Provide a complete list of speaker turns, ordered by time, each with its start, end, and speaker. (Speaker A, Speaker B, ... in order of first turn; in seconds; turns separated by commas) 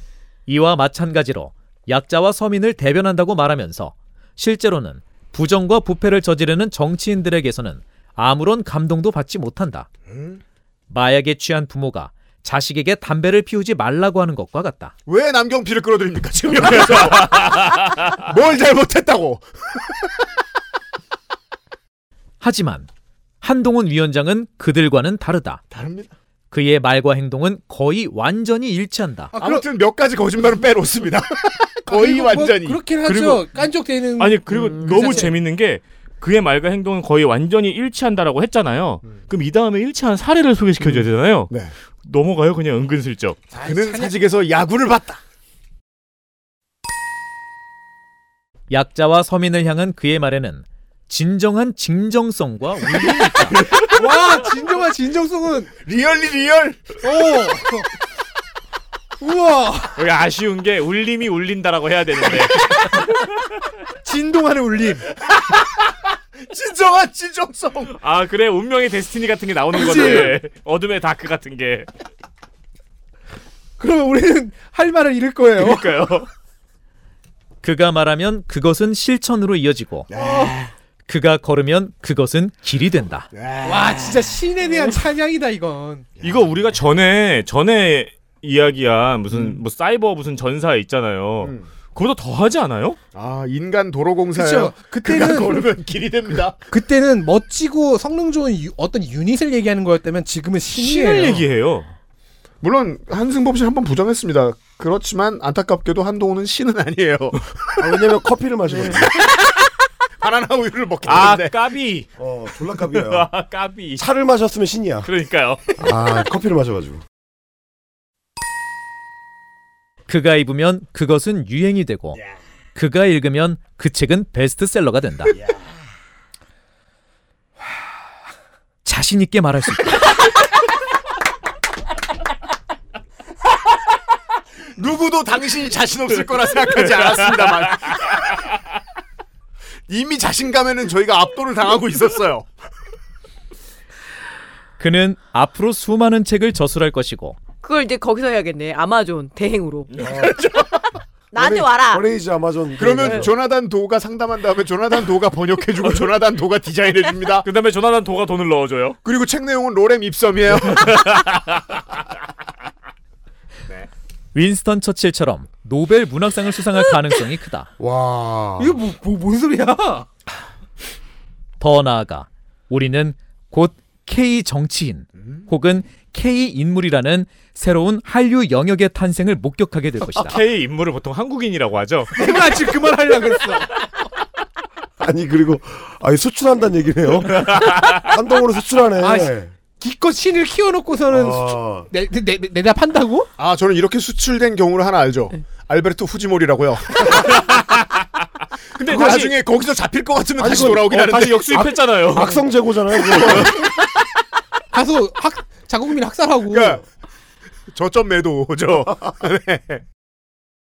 Speaker A: 0.5-9.9, Speaker B: 10.1-10.4, Speaker A: 10.9-14.9, Speaker B: 15.1-20.2, Speaker C: 16.9-17.7, Speaker A: 22.4-22.9, Speaker A: 23.4-25.6, Speaker B: 25.7-26.1, Speaker A: 26.5-29.3, Speaker D: 29.3-29.6, Speaker B: 29.4-32.8, Speaker D: 31.9-35.3, Speaker C: 33.0-33.5, Speaker C: 34.2-41.5, Speaker E: 34.8-35.2, Speaker B: 40.9-41.7, Speaker C: 42.0-43.4, Speaker D: 43.5-44.1, Speaker B: 43.5-45.2, Speaker A: 48.7-53.6, Speaker D: 53.8-55.7, Speaker B: 55.8-57.1, Speaker D: 57.0-57.9, Speaker D: 59.2-60.0, Speaker C: 60.0-63.2, Speaker B: 64.0-67.9, Speaker D: 64.3-65.0, Speaker C: 67.9-71.9, Speaker D: 69.7-70.4, Speaker D: 73.8-76.2, Speaker C: 75.6-76.3, Speaker A: 77.6-80.1, Speaker B: 80.1-80.7, Speaker D: 80.1-80.6, Speaker A: 81.0-83.3, Speaker B: 83.3-84.3, Speaker D: 83.6-86.1, Speaker C: 86.2-93.0, Speaker B: 91.4-91.7, Speaker B: 93.1-96.6, Speaker D: 94.3-95.7, Speaker D: 96.7-101.4, Speaker C: 100.7-101.9, Speaker B: 102.6-107.9, Speaker F: 107.8-109.2, Speaker B: 108.7-109.0, Speaker B: 110.2-111.5, Speaker C: 111.0-112.1, Speaker F: 112.2-113.3, Speaker C: 112.8-114.0, Speaker F: 114.0-115.1, Speaker C: 115.0-115.7, Speaker F: 115.8-117.0, Speaker A: 120.1-122.2, Speaker A: 122.7-125.3, Speaker A: 128.8-130.0, Speaker B: 134.7-138.4, Speaker C: 136.9-137.9, Speaker B: 139.9-142.5, Speaker A: 144.8-147.4, Speaker E: 147.6-149.9, Speaker F: 150.0-150.3, Speaker B: 150.1-150.8, Speaker E: 151.3-152.1, Speaker F: 151.3-153.3, Speaker B: 152.8-157.4, Speaker C: 157.4-159.0, Speaker B: 159.0-161.1, Speaker C: 160.8-161.4, Speaker A: 164.3-167.7, Speaker F: 167.8-168.8, Speaker D: 168.6-170.1, Speaker A: 171.6-180.4, Speaker C: 180.2-182.1, Speaker D: 182.1-183.7, Speaker F: 185.0-189.5, Speaker C: 187.3-188.0, Speaker D: 189.0-193.3, Speaker F: 191.1-191.9, Speaker B: 193.4-197.5, Speaker C: 197.4-197.7, Speaker B: 198.8-201.6, Speaker C: 198.8-199.3, Speaker F: 198.9-199.2, Speaker F: 200.4-203.5, Speaker C: 200.9-202.4, Speaker D: 204.7-206.8, Speaker B: 206.5-206.8, Speaker B: 207.7-209.8